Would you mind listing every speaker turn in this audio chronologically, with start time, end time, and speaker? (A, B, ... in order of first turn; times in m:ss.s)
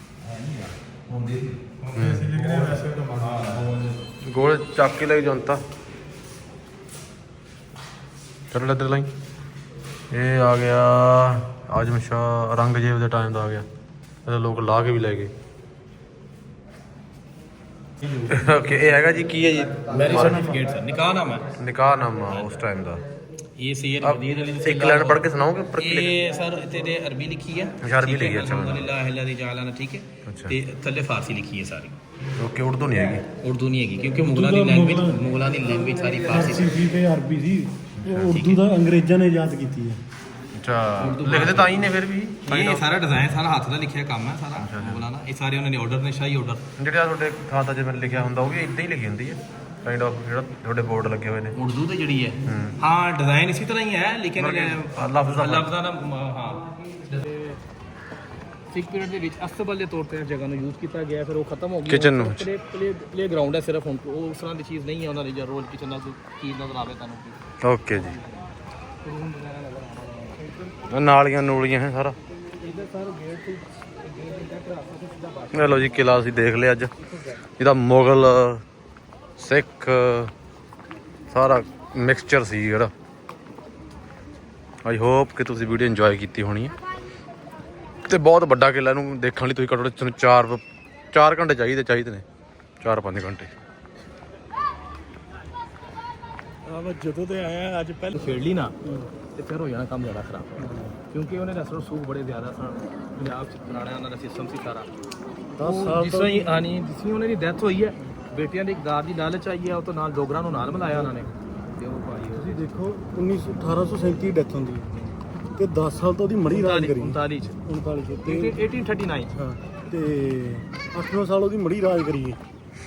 0:00.2-0:02.4 A
0:01.8-0:03.6 B
0:01.9-0:05.6 C
0:03.2-0:04.0 A
0:08.5-0:09.1 C
0:10.1-0:13.6 C
0:14.2-0:15.3 C
0:18.0-0:18.3 A
0:18.3-0:20.5 C
0:19.9-0:21.5 A
0:20.2-0:20.4 B
0:21.5-0:23.0 C
0:22.3-0:22.6 A
0:23.6-0:32.0 A
0:24.0-0:26.2 C
0:27.8-0:28.9 C
0:30.2-0:30.6 C
0:32.4-0:33.2 C
0:33.3-0:36.8 A
0:34.1-0:35.2 B
0:36.1-0:40.0 B
0:38.0-0:38.4 C
0:38.3-0:38.6 A
0:40.5-0:42.8 C
0:41.0-0:41.8 A
0:42.4-0:46.6 A
0:44.6-0:45.0 C
0:46.8-0:51.6 C
0:51.5-0:57.6 A
0:52.4-0:52.8 C
0:54.4-0:55.7 C
0:58.7-1:07.4 A
1:01.8-1:02.5 C
1:07.6-1:08.2 C
1:07.9-1:08.5 A
1:09.0-1:10.5 A
1:10.9-1:12.2 C
1:12.6-1:17.4 A
1:15.5-1:16.9 C
1:17.6-1:18.6 C
1:19.4-1:20.3 C
1:21.3-1:22.9 C
1:24.8-1:26.7 C
1:28.0-1:32.2 C
1:32.8-1:33.5 C
1:36.7-1:37.9 B
1:37.0-1:38.8 A
1:38.8-1:39.1 B
1:39.3-1:44.9 A
1:40.6-1:40.9 B
1:45.5-1:46.6 B
1:45.6-1:52.7 A
1:52.3-1:54.9 B
1:55.5-1:58.6 B
1:56.5-1:57.6 A
1:58.2-1:59.4 A
1:59.3-2:02.4 B